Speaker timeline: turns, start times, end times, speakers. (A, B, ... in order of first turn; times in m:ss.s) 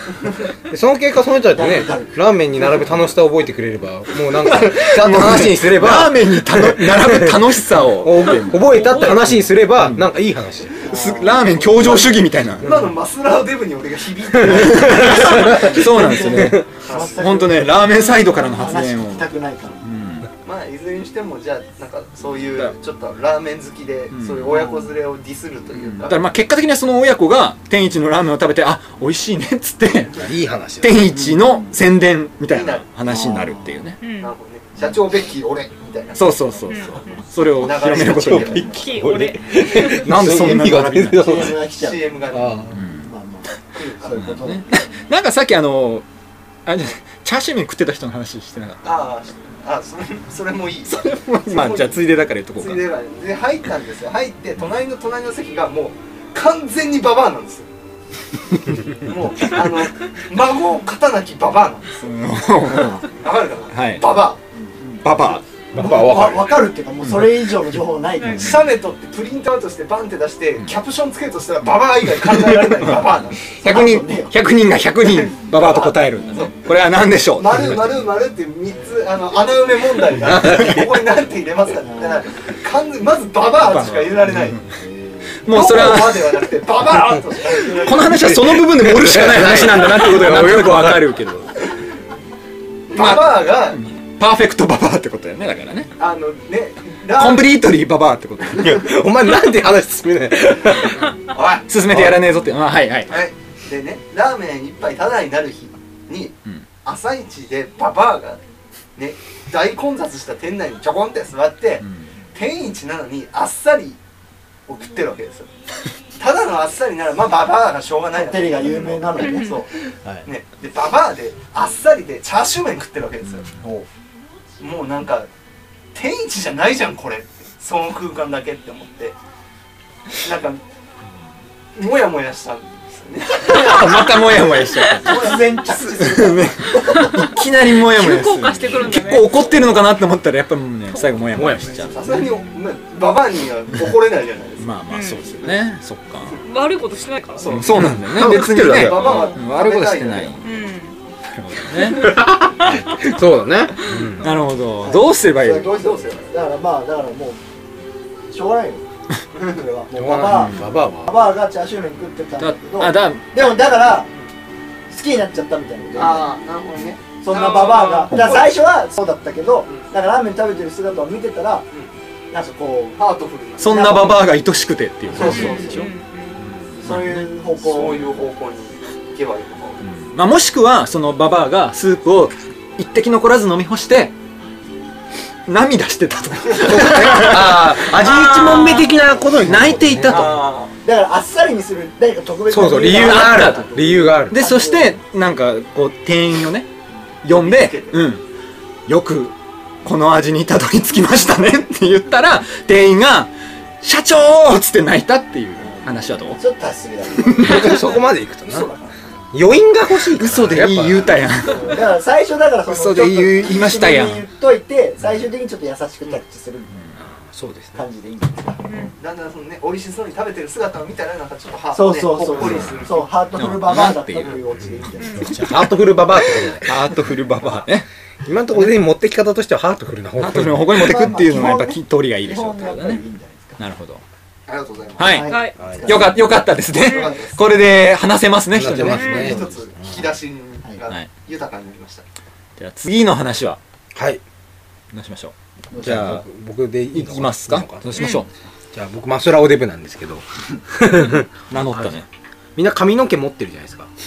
0:00.7-0:10.9 A
0:01.5-0:02.2 B
0:04.4-0:10.1 C
0:08.5-0:09.3 D
0:10.8-0:12.2 B
0:10.9-0:12.8 C
0:12.6-0:15.6 E
0:12.6-0:12.9 A
0:14.4-0:15.8 A
0:14.4-0:20.3 C
0:15.5-0:17.7 B
0:16.3-0:16.6 A
0:16.8-0:17.2 E
0:18.4-0:19.8 B
0:20.4-0:26.2 E
0:24.1-0:24.7 C
0:24.5-0:24.9 B
0:25.9-0:34.0 C
0:30.1-0:31.1 A
0:31.1-0:31.8 B
0:32.5-0:32.9 E
0:33.0-0:33.8 B
0:34.0-0:34.3 D
0:34.2-0:36.9 E
0:36.1-0:38.9 C
0:36.7-0:37.2 D
0:37.5-0:38.8 E
0:38.0-0:41.6 A
0:38.6-0:40.1 D
0:39.6-0:41.5 C
0:40.4-0:42.1 B
0:41.7-0:42.8 E
0:42.3-0:42.8 A
0:42.7-0:43.1 C
0:43.0-0:43.5 B
0:43.7-0:44.2 E
0:44.0-0:44.7 B
0:44.1-0:46.0 C
0:46.6-0:49.0 C
0:48.8-0:57.7 E
0:50.8-0:52.8 C
0:59.0-1:02.1 E
1:02.0-1:03.0 C
1:02.7-1:03.0 B
1:03.1-1:04.4 E
1:03.7-1:04.0 C
1:04.6-1:08.7 B
1:05.0-1:05.4 C
1:05.7-1:06.6 A
1:07.0-1:07.5 C
1:08.2-1:08.5 D
1:08.3-1:13.5 E
1:12.6-1:13.0 C
1:13.5-1:14.3 B
1:13.6-1:17.8 C
1:15.0-1:16.5 E
1:17.4-1:24.6 E
1:20.2-1:20.9 A
1:21.8-1:22.2 B
1:23.6-1:24.7 C
1:24.8-1:25.4 B
1:25.4-1:26.4 C
1:25.5-1:28.4 E
1:27.6-1:31.6 C
1:27.9-1:31.2 A
1:32.9-1:33.8 E
1:32.9-1:35.9 C
1:36.0-1:37.5 E
1:37.1-1:38.8 C
1:38.5-1:41.2 A
1:41.3-1:41.6 E
1:41.7-1:43.2 C
1:41.9-1:42.2 A
1:43.1-1:48.4 E
1:49.0-1:54.0 E
1:51.8-1:52.0 C
1:54.7-1:55.5 E
1:56.2-1:59.7 E
1:58.1-1:59.6 B
1:59.2-1:59.6 D
2:00.2-2:03.5 E
2:03.6-2:03.9 B
2:04.6-2:05.3 E
2:05.9-2:09.2 E
2:10.2-2:10.6 E
2:11.8-2:14.1 E
2:13.4-2:15.3 C
2:15.0-2:17.1 B
2:16.0-2:22.0 C
2:17.0-2:19.3 D
2:21.3-2:22.2 A
2:21.9-2:24.8 E
2:24.6-2:26.4 C
2:24.9-2:25.2 D
2:26.4-2:27.6 D
2:27.4-2:30.3 E
2:27.4-2:30.4 C
2:27.8-2:29.1 A
2:28.9-2:29.4 D
2:30.4-2:30.9 D
2:31.3-2:33.0 C
2:31.9-2:34.3 A
2:32.6-2:33.0 D
2:33.8-2:34.4 D
2:34.2-2:35.7 C
2:34.8-2:37.4 B
2:35.7-2:36.3 E
2:38.3-2:38.8 B
2:39.3-2:39.6 E
2:39.5-2:44.1 B
2:39.9-2:41.1 A
2:40.2-2:40.7 C
2:42.4-2:43.2 C
2:44.9-2:46.3 B
2:46.0-2:48.6 E
2:47.2-2:51.6 B
2:52.3-2:53.0 B
2:53.0-2:53.7 E
2:53.6-2:55.9 C
2:53.6-2:54.3 B
2:55.1-2:55.7 E
2:55.2-2:55.8 B
2:55.2-2:56.4 D
2:56.4-2:57.2 C
2:56.8-2:58.1 B
2:57.6-2:59.8 E
2:59.8-3:04.1 C
3:05.5-3:07.8 C
3:06.6-3:10.4 A
3:08.0-3:09.0 D
3:09.4-3:10.6 C
3:10.1-3:10.7 E
3:10.8-3:15.0 B
3:12.5-3:14.4 A
3:12.7-3:13.7 C
3:14.3-3:16.7 C
3:17.2-3:18.2 C
3:17.3-3:18.0 E
3:18.9-3:26.4 C
3:25.6-3:28.7 B
3:27.2-3:27.6 C
3:27.4-3:28.7 A
3:27.6-3:27.9 E
3:29.3-3:31.2 A
3:30.0-3:31.8 C
3:31.5-3:36.8 B
3:32.7-3:34.2 C
3:37.0-3:37.8 A
3:37.7-3:38.9 B
3:38.7-3:38.9 D
3:39.0-3:43.1 E
3:41.7-3:45.5 B
3:42.4-3:44.4 C
3:45.0-3:45.3 D
3:45.2-3:45.5 C
3:45.2-3:46.7 A
3:46.6-3:47.9 C
3:48.2-3:50.8 A
3:50.2-3:53.0 C
3:50.8-3:53.6 B
3:53.6-3:54.0 C
3:54.5-3:55.2 E
3:55.0-3:59.4 C
3:55.0-3:56.3 B
3:55.3-3:55.6 D
3:55.6-3:56.0 A
3:56.8-3:57.1 D
3:56.8-3:57.4 E
3:58.5-4:00.0 A
3:58.8-4:02.0 E
3:58.9-3:59.3 D
4:02.6-4:03.6 C
4:03.9-4:04.2 A
4:04.9-4:06.2 C
4:05.7-4:08.2 A
4:06.9-4:08.3 C
4:08.0-4:08.2 D
4:08.7-4:11.9 A
4:11.5-4:12.1 C
4:12.6-4:13.9 A